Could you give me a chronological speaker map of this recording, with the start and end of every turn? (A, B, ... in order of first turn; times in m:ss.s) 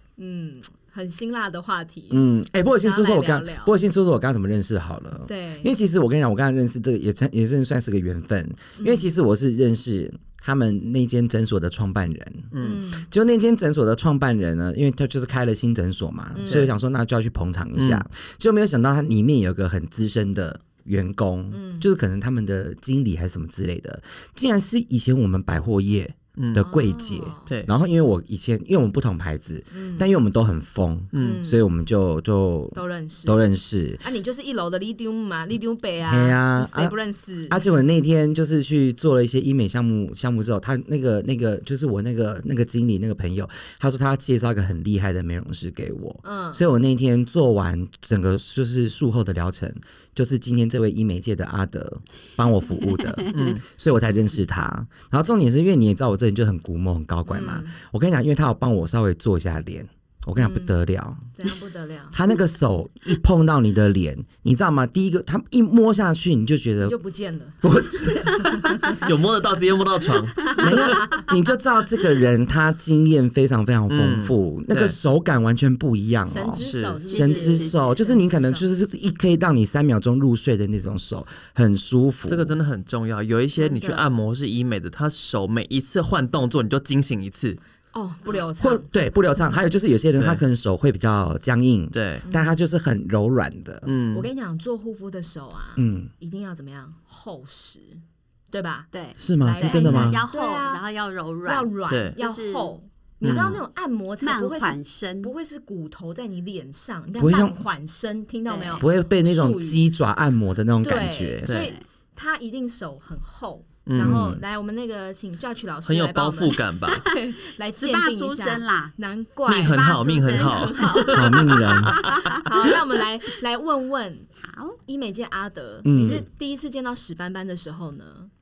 0:00.2-0:02.3 A
0:02.1-0:34.0 B
0:02.8-0:03.7 A
0:05.3-0:05.7 A
0:08.8-0:09.1 A
0:12.5-0:12.8 C
0:12.6-0:13.1 A
0:16.3-0:16.7 A
0:17.8-0:18.0 C
0:21.5-0:21.9 A
0:26.4-0:26.6 C
0:26.6-0:27.5 A
0:29.7-0:30.1 A
0:31.1-0:31.4 C
0:31.2-0:31.6 A
0:32.7-0:33.5 A
0:34.0-0:37.6 A
0:36.1-0:37.0 B
0:37.5-1:01.4 B
0:46.2-0:46.6 A
0:53.0-0:53.5 D
0:53.3-0:53.6 C
0:57.3-0:57.8 A
1:00.4-1:00.8 A
1:01.3-1:02.2 A
1:02.1-1:07.0 B
1:06.8-1:09.0 A
1:07.6-1:08.8 B
1:09.0-1:10.8 C
1:10.5-1:11.2 A
1:10.5-1:22.6 B
1:13.9-1:15.0 C
1:16.3-1:18.7 A
1:16.6-1:17.0 C
1:17.1-1:18.0 D
1:22.3-1:27.6 C
1:23.6-1:24.1 A
1:27.9-1:28.9 A
1:28.6-1:33.9 B
1:30.2-1:30.4 C
1:31.9-1:32.2 C
1:32.2-1:32.6 A
1:33.8-1:34.3 C
1:34.1-1:38.0 A
1:35.8-1:36.1 B
1:38.5-1:40.8 A
1:38.9-1:42.7 D
1:39.2-1:40.2 B
1:41.4-1:49.9 A
1:41.9-1:42.1 C
1:43.2-1:43.6 C
1:43.3-1:43.6 D
1:44.2-1:45.3 D
1:47.2-1:47.6 B
1:48.5-1:48.8 D
1:48.8-1:51.5 B
1:50.8-2:01.7 A
1:51.5-1:51.7 C
1:51.5-1:51.8 D
1:53.9-1:54.2 C
1:54.0-1:54.4 B
1:55.9-1:57.1 C
1:57.8-1:59.0 D
1:59.5-2:02.3 C
1:59.7-2:00.8 D
2:01.1-2:02.1 B
2:01.9-2:02.7 D
2:02.3-2:04.3 A
2:04.4-2:04.8 D
2:04.9-2:08.3 A
2:05.8-2:06.2 B
2:05.9-2:06.2 D